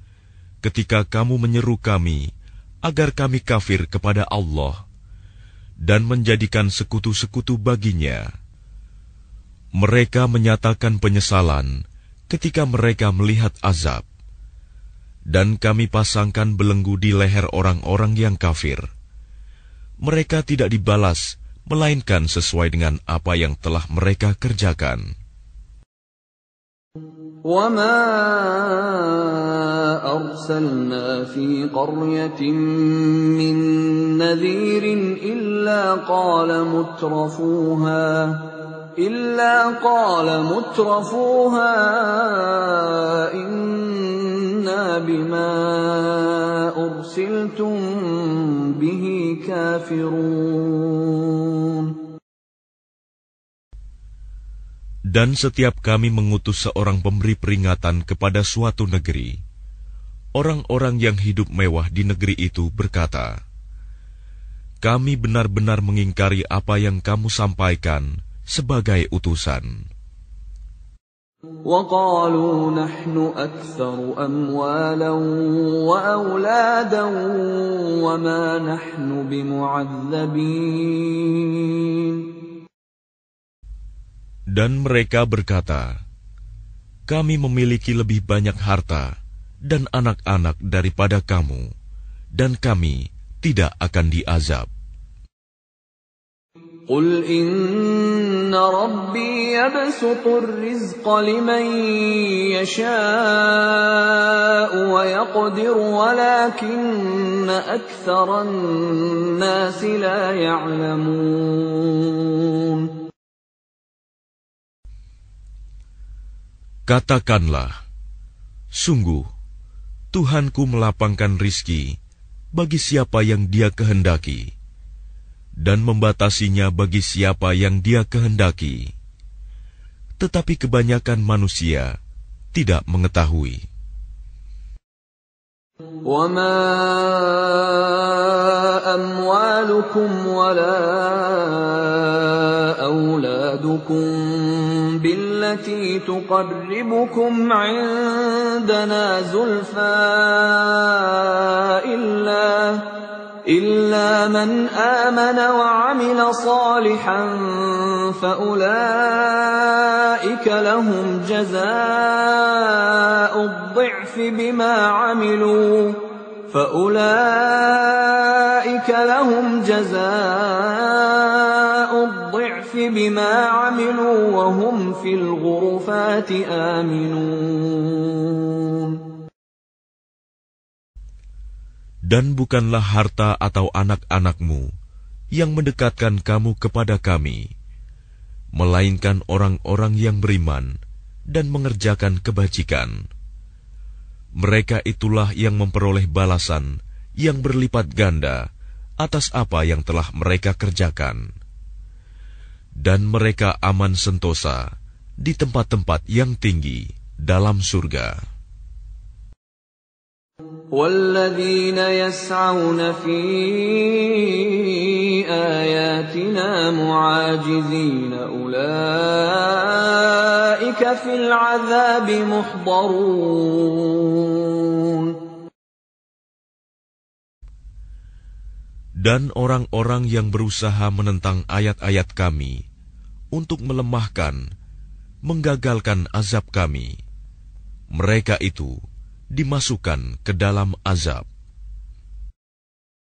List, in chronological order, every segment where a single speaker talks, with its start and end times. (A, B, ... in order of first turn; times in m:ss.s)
0:00.6-0:02.2 A
0:02.9-0:04.8 A
0:05.9-0:08.2 A
0:09.8-0:11.7 A
0:12.3-0:14.0 A
0:15.3-0:18.9 A
0:20.0-0:25.0 A
0:27.4-0:52.0 B
0:55.1-0:59.4 A
1:00.4-1:03.3 A
1:04.8-1:09.8 A
1:11.6-1:22.3 B
1:24.6-1:25.9 A
1:27.1-1:29.1 A
1:29.7-1:31.6 A
1:32.4-1:34.7 A
1:36.9-1:52.9 B
1:56.9-1:57.7 A
1:58.8-1:59.2 A
2:00.1-2:02.0 A
2:02.6-2:04.5 A
2:05.6-2:08.9 A
2:10.2-2:11.9 A
2:12.5-2:13.6 A
2:16.0-2:32.9 B
2:33.5-2:59.0 B
3:02.1-3:04.7 A
3:05.4-3:07.5 A
3:08.6-3:10.8 A
3:11.3-3:13.0 A
3:14.4-3:18.4 A
3:19.0-3:21.2 A
3:22.8-3:24.7 A
3:25.2-3:28.2 A
3:30.7-3:45.2 B
3:49.0-3:52.6 A
3:53.3-3:54.4 A
3:55.3-3:57.0 A
3:58.0-3:58.8 A
3:59.4-4:01.3 A